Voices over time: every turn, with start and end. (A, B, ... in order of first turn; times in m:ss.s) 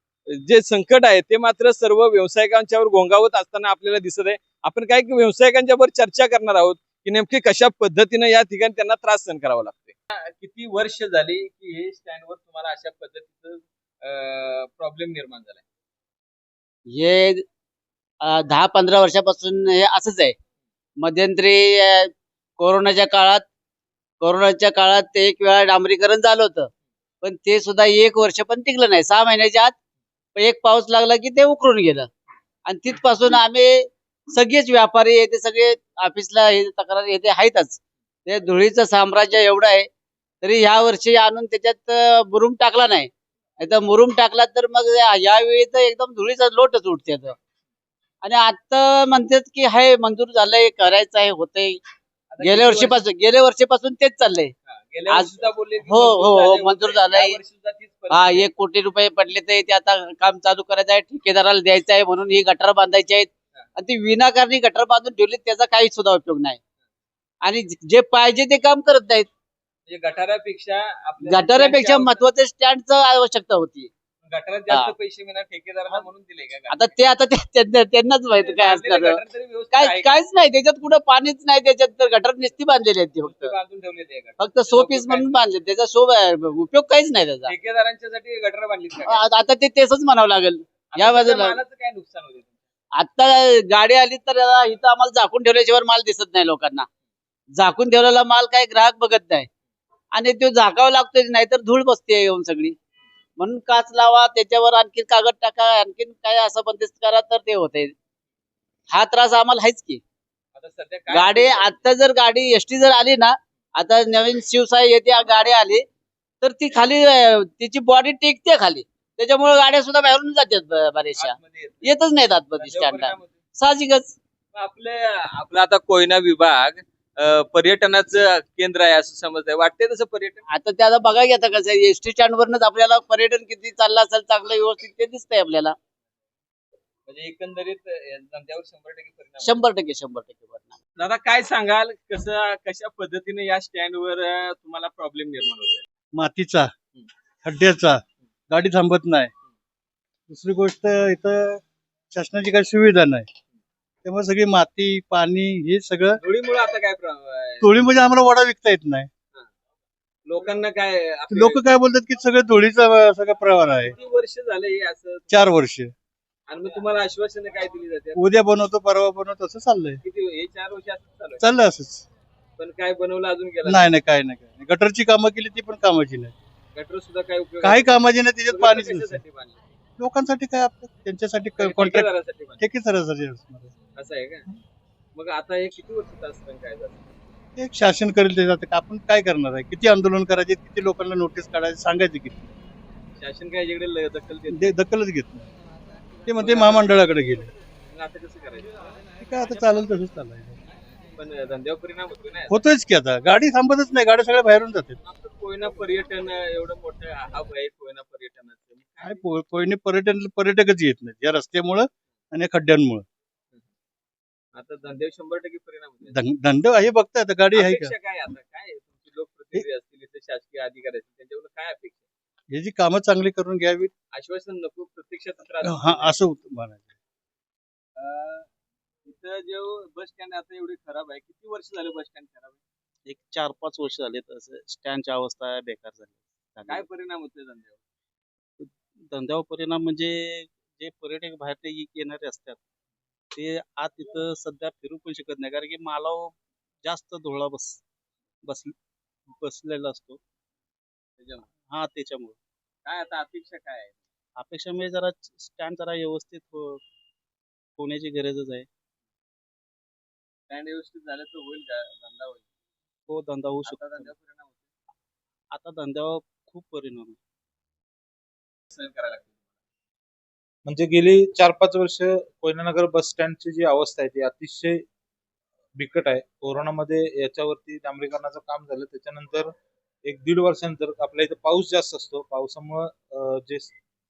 0:00.5-0:15.6 A
0:16.9-0:17.4 B
0:18.2-0:20.4 B
0:21.0-0:23.4 B
0:24.2-0:26.7 B
0:27.2-0:29.8 B
0:30.4-0:32.1 B
0:32.7-0:39.9 B
0:40.4-0:47.4 B
0:48.2-0:51.8 B
0:52.3-0:53.0 A
0:52.4-0:54.5 B
0:54.7-0:58.5 A
0:55.9-0:57.4 B
0:58.1-1:06.6 B
1:07.4-1:09.3 B
1:09.9-1:12.3 A
1:11.3-1:13.9 B
1:14.2-1:16.9 A
1:16.7-1:23.5 B
1:18.4-1:20.2 A
1:23.2-1:25.3 A
1:24.4-1:27.5 B
1:27.5-1:29.2 A
1:29.0-1:31.6 B
1:30.9-1:32.5 A
1:33.0-1:36.9 B
1:37.6-1:39.5 B
1:40.2-1:42.8 B
1:43.4-1:47.9 B
1:48.9-1:50.0 B
1:50.6-1:51.8 A
1:51.1-1:55.8 B
1:56.4-2:04.2 B
2:01.2-2:01.9 A
2:02.6-2:03.3 A
2:04.5-2:10.4 A
2:10.5-2:15.8 B
2:17.1-2:19.6 A
2:19.4-2:20.8 B
2:21.0-2:25.8 A
2:26.1-2:26.7 C
2:27.4-2:29.3 C
2:30.3-2:33.3 C
2:34.0-2:36.2 C
2:36.2-2:37.8 A
2:37.6-2:39.1 C
2:40.3-2:41.6 A
2:41.3-2:43.9 C
2:44.0-2:45.6 A
2:45.3-2:45.9 C
2:46.5-2:48.2 A
2:48.2-2:50.0 C
2:50.0-2:51.4 A
2:51.4-2:52.0 C
2:52.6-2:53.9 A
2:53.6-2:56.4 C
2:56.7-2:59.6 A
2:57.6-2:59.2 C
3:00.0-3:02.1 C
3:01.6-3:02.7 A
3:02.6-3:03.7 C
3:04.0-3:04.5 A
3:05.2-3:07.1 A
3:07.6-3:12.5 C
3:13.2-3:14.8 A
3:14.5-3:15.5 C
3:16.3-3:17.5 C
3:16.4-3:17.0 A
3:17.9-3:18.7 A
3:19.2-3:20.6 C
3:21.2-3:22.6 A
3:22.5-3:25.0 C
3:25.0-3:29.2 A
3:29.0-3:33.0 C
3:34.6-3:36.2 A
3:36.1-3:37.9 C
3:37.5-3:42.0 A
3:42.5-3:43.9 C
3:44.1-3:46.2 A
3:45.6-3:46.9 C
3:48.0-3:48.5 A
3:49.1-3:52.6 A
3:53.1-3:56.9 D
3:56.7-3:57.8 A
3:59.1-4:00.3 D
4:00.5-4:00.9 C
4:01.0-4:02.6 D
4:03.4-4:06.3 D
4:07.2-4:07.6 D
4:08.4-4:08.7 C
4:09.4-4:10.0 D
4:09.6-4:10.2 C
4:11.2-4:11.5 A
4:11.8-4:12.2 D
4:12.9-4:14.0 A
4:14.4-4:16.8 D
4:17.8-4:18.7 D
4:20.5-4:22.5 A
4:23.1-4:24.1 D
4:23.6-4:24.7 A
4:25.5-4:27.2 D
4:28.7-4:29.3 A
4:30.6-4:34.8 E
4:35.8-4:39.5 E
4:40.0-4:43.8 E